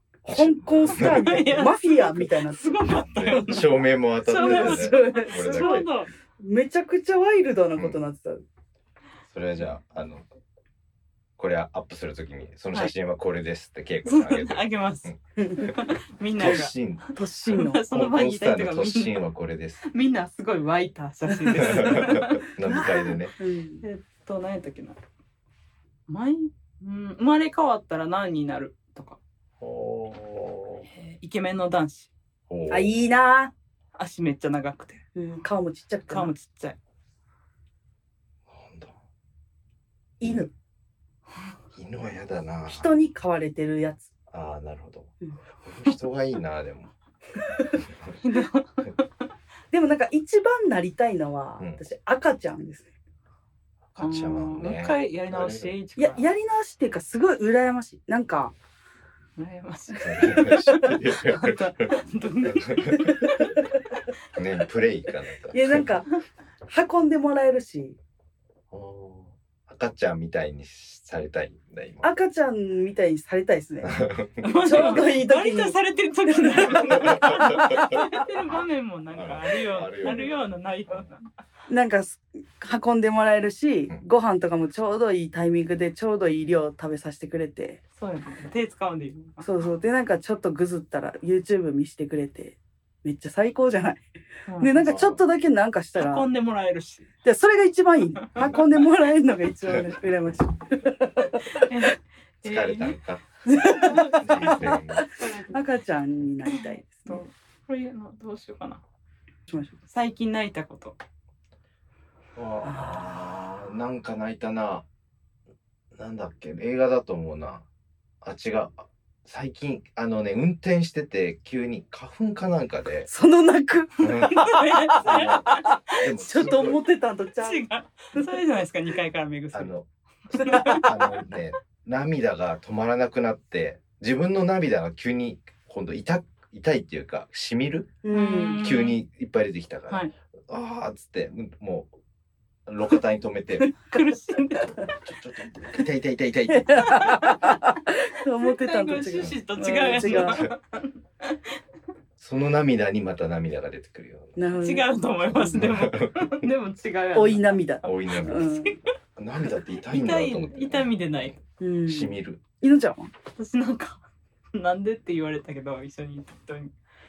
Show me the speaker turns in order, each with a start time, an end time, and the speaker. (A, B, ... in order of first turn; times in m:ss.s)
0:00.2-0:02.8 A
0:00.3-0:01.5 B
0:00.9-0:06.1 C
0:03.1-0:05.9 B
0:03.3-0:03.6 A
0:04.3-0:08.4 A
0:09.2-0:10.2 B
0:11.4-0:15.2 B
0:14.0-0:19.1 C
0:15.4-0:15.7 A
0:16.4-0:17.1 B
0:17.1-0:17.8 A
0:17.9-0:19.8 B
0:19.8-0:22.8 C
0:21.5-0:23.3 B
0:22.7-0:23.8 A
0:23.8-0:25.0 C
0:26.1-0:29.2 C
0:29.6-0:30.8 B
0:30.8-0:32.1 C
0:32.5-0:33.0 B
0:32.7-0:33.5 A
0:33.9-0:35.0 C
0:35.2-0:36.3 A
0:36.1-0:36.8 C
0:38.5-0:39.0 B
0:40.2-0:40.5 A
0:41.7-0:42.9 B
0:42.7-0:44.1 A
0:44.3-0:45.1 B
0:45.6-0:46.9 B
0:47.8-0:48.1 B
0:48.2-0:49.1 C
0:49.7-0:52.9 A
0:53.9-0:55.7 B
0:54.0-0:56.2 C
0:56.0-0:58.5 A
0:59.4-1:04.0 C
1:00.0-1:03.6 B
1:04.3-1:05.9 B
1:05.5-1:06.1 A
1:06.7-1:08.0 A
1:08.7-1:12.1 B
1:12.0-1:14.0 A
1:13.8-1:15.0 B
1:14.4-1:21.3 C
1:14.6-1:18.1 A
1:16.8-1:18.0 B
1:19.1-1:20.3 B
1:21.7-1:27.8 A
1:28.0-1:29.4 C
1:29.4-1:34.0 A
1:34.5-1:34.9 C
1:34.6-1:36.3 A
1:34.8-1:35.2 B
1:36.0-1:37.1 C
1:37.2-1:41.7 A
1:41.5-1:43.0 C
1:42.4-1:45.0 B
1:43.4-1:47.2 A
1:43.6-1:44.8 C
1:46.5-1:48.8 C
1:49.5-1:49.7 A
1:49.9-1:51.0 C
1:52.3-1:54.8 B
1:52.6-1:53.1 A
1:55.9-1:57.6 B
1:58.2-2:03.1 B
2:03.1-2:08.3 A
2:04.0-2:06.8 B
2:04.1-2:06.0 C
2:07.4-2:09.7 C
2:09.5-2:18.0 B
2:10.3-2:11.2 C
2:10.4-2:10.8 A
2:18.0-2:18.6 A
2:18.1-2:19.0 C
2:18.6-2:21.9 B
2:22.6-2:23.7 B
2:23.8-2:24.9 C
2:24.8-2:27.3 B
2:26.5-2:30.5 A
2:26.8-2:27.4 C
2:28.4-2:31.5 C
2:29.2-2:30.5 B
2:32.2-2:34.5 B
2:34.4-2:35.6 A
2:34.5-2:38.8 C
2:35.3-2:36.5 B
2:37.1-2:38.8 A
2:37.8-2:38.5 B
2:39.2-2:42.4 B
2:39.8-2:41.4 C
2:41.6-2:43.1 A
2:43.4-2:44.0 C
2:44.5-2:46.7 C